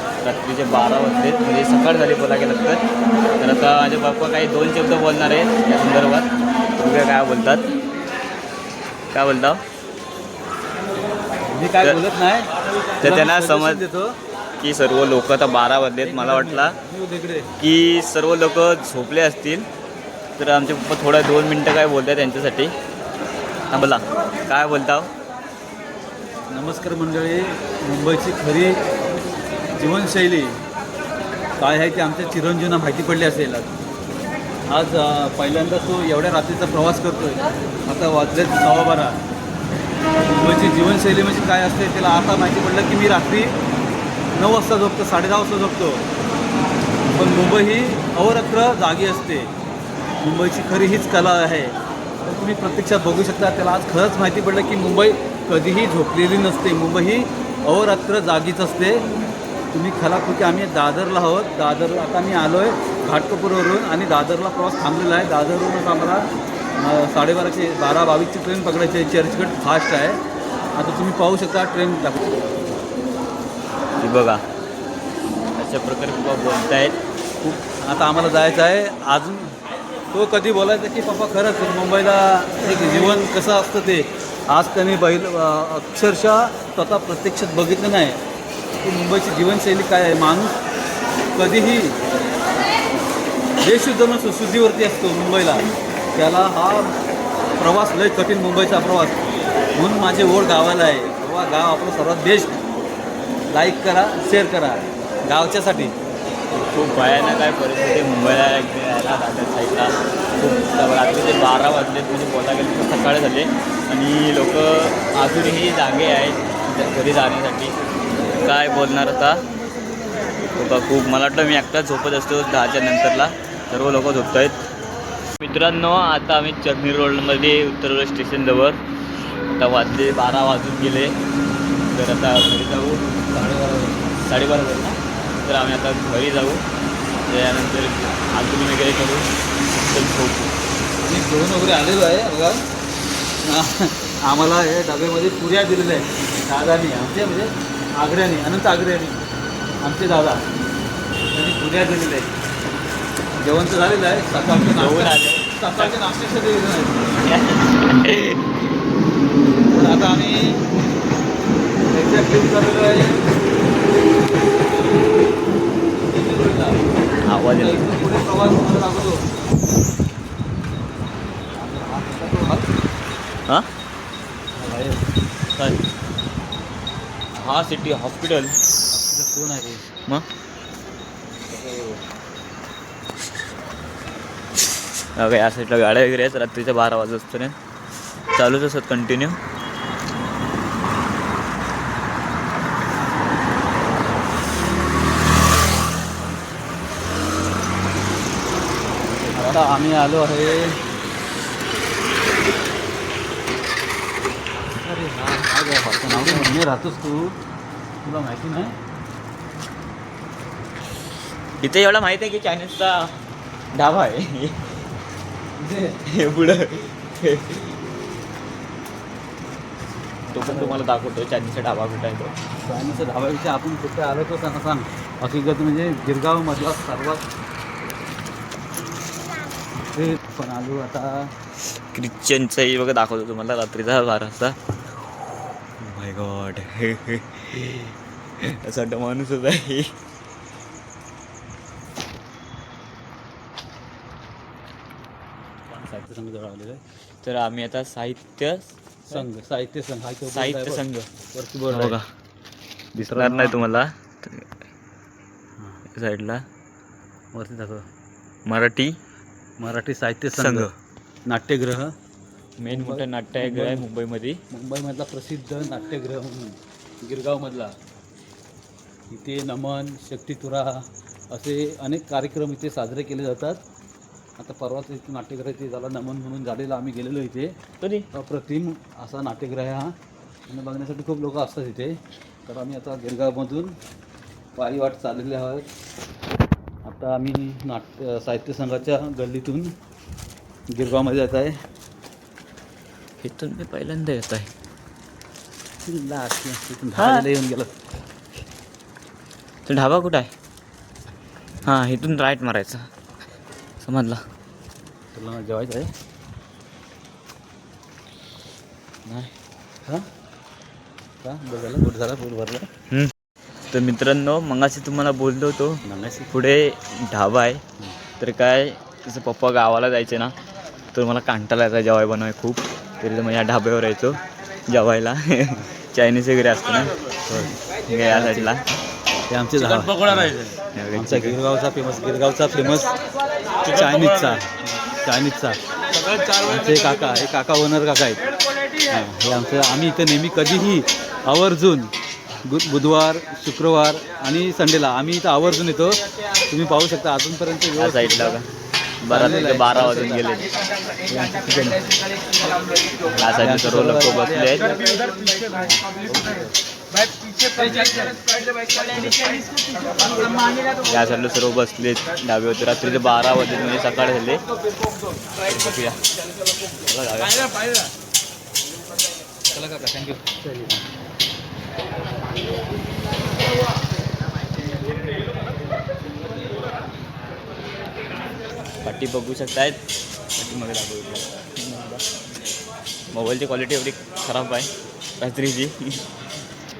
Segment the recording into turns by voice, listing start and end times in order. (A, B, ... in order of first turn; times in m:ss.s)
0:00.2-0:02.8 A
0:03.4-0:07.7 A
0:09.1-0:09.6 A
0:11.5-0:14.2 B
0:13.0-0:13.8 A
0:14.6-0:16.8 A
0:16.0-0:17.5 B
0:17.6-0:19.7 A
0:20.4-0:22.7 A
0:23.7-0:25.1 A
0:26.5-0:28.8 B
0:29.7-0:30.6 B
0:31.6-0:33.7 B
0:34.7-0:39.2 B
0:40.2-0:43.5 B
0:44.3-0:46.0 B
0:47.1-0:49.5 B
0:50.2-0:59.0 B
0:59.7-1:06.2 B
1:06.8-1:10.2 B
1:10.8-1:12.3 B
1:14.0-1:14.4 A
1:15.6-1:16.9 A
1:17.4-1:19.5 B
1:20.1-1:28.2 B
1:28.8-1:30.6 B
1:31.3-1:32.0 B
1:33.6-1:36.9 B
1:37.6-1:42.6 B
1:43.5-1:45.9 B
1:46.5-1:59.4 A
2:00.6-2:04.6 A
2:05.4-2:08.8 A
2:09.5-2:11.1 A
2:11.9-2:13.0 A
2:13.3-2:14.1 B
2:14.2-2:16.6 A
2:17.2-2:20.5 A
2:21.0-2:22.6 B
2:23.4-2:29.2 B
2:29.8-2:30.4 B
2:31.3-2:32.3 B
2:33.4-2:37.2 B
2:34.7-2:35.9 A
2:37.2-2:38.4 A
2:39.5-2:40.7 B
2:41.9-2:43.3 B
2:46.0-2:46.8 B
2:47.2-2:47.8 A
2:47.5-2:49.2 B
2:51.6-2:52.7 B
2:54.6-2:55.0 B
2:57.3-2:58.5 A
2:58.9-2:59.8 B
3:01.5-3:02.0 B
3:05.2-3:07.5 A
3:08.3-3:09.4 A
3:19.3-3:19.5 A
3:19.3-3:20.8 B
3:24.6-3:26.5 A
3:25.5-3:27.4 B
3:28.0-3:28.7 B
3:31.6-3:33.1 A
3:33.7-3:34.7 A
3:35.6-3:36.0 B
3:36.1-3:37.8 A
3:40.3-3:42.3 A
3:40.4-3:40.8 B
3:42.6-3:47.2 B
3:49.9-3:51.3 B
3:51.8-3:54.6 A
3:55.8-3:59.9 A
4:05.7-4:06.8 B
4:07.2-4:09.2 A
4:09.1-4:12.0 B
4:10.3-4:11.1 A
4:11.7-4:12.0 A
4:12.9-4:13.6 B
4:13.0-4:14.4 A
4:15.9-4:16.4 A
4:17.3-4:17.8 B
4:18.4-4:18.9 A
4:19.6-4:20.7 B
4:20.3-4:20.7 A
4:21.3-4:21.9 B
4:22.6-4:24.4 A
4:22.7-4:23.9 B
4:24.5-4:27.7 B
4:29.1-4:33.6 B
4:34.4-4:37.5 B
4:37.8-4:38.1 A
4:38.1-4:39.9 B
4:40.5-4:43.7 B
4:44.6-4:45.6 B
4:46.8-4:49.7 B
4:50.7-4:51.6 B
4:53.2-4:54.5 A
4:55.8-4:57.7 B
4:57.0-4:57.2 A
4:59.6-5:00.3 A
5:01.6-5:02.9 A
5:03.8-5:04.2 A
5:05.1-5:05.9 B
5:09.0-5:09.3 A
5:11.2-5:12.7 B
5:13.7-5:17.6 A
5:15.8-5:16.4 B
5:18.2-5:20.3 A
5:20.9-5:26.9 A
5:27.3-5:28.5 B
5:27.7-5:28.8 A
5:29.3-5:32.9 B
5:29.6-5:31.4 A
5:33.6-5:34.5 B
5:35.0-5:35.6 B
5:36.2-5:38.2 B
5:38.9-5:41.9 B
5:42.4-5:46.0 B
5:46.5-5:48.4 B
5:47.8-5:48.4 A
5:49.0-5:50.3 B
5:49.0-5:50.5 A
5:51.1-5:51.8 B
5:53.1-5:56.5 B
5:53.2-5:54.7 A
5:57.5-5:58.2 B
6:00.8-6:04.4 A
6:05.4-6:06.0 A
6:06.8-6:07.4 A
6:09.5-6:10.8 B
6:18.8-6:19.8 A
6:20.4-6:22.0 A
6:23.1-6:26.0 A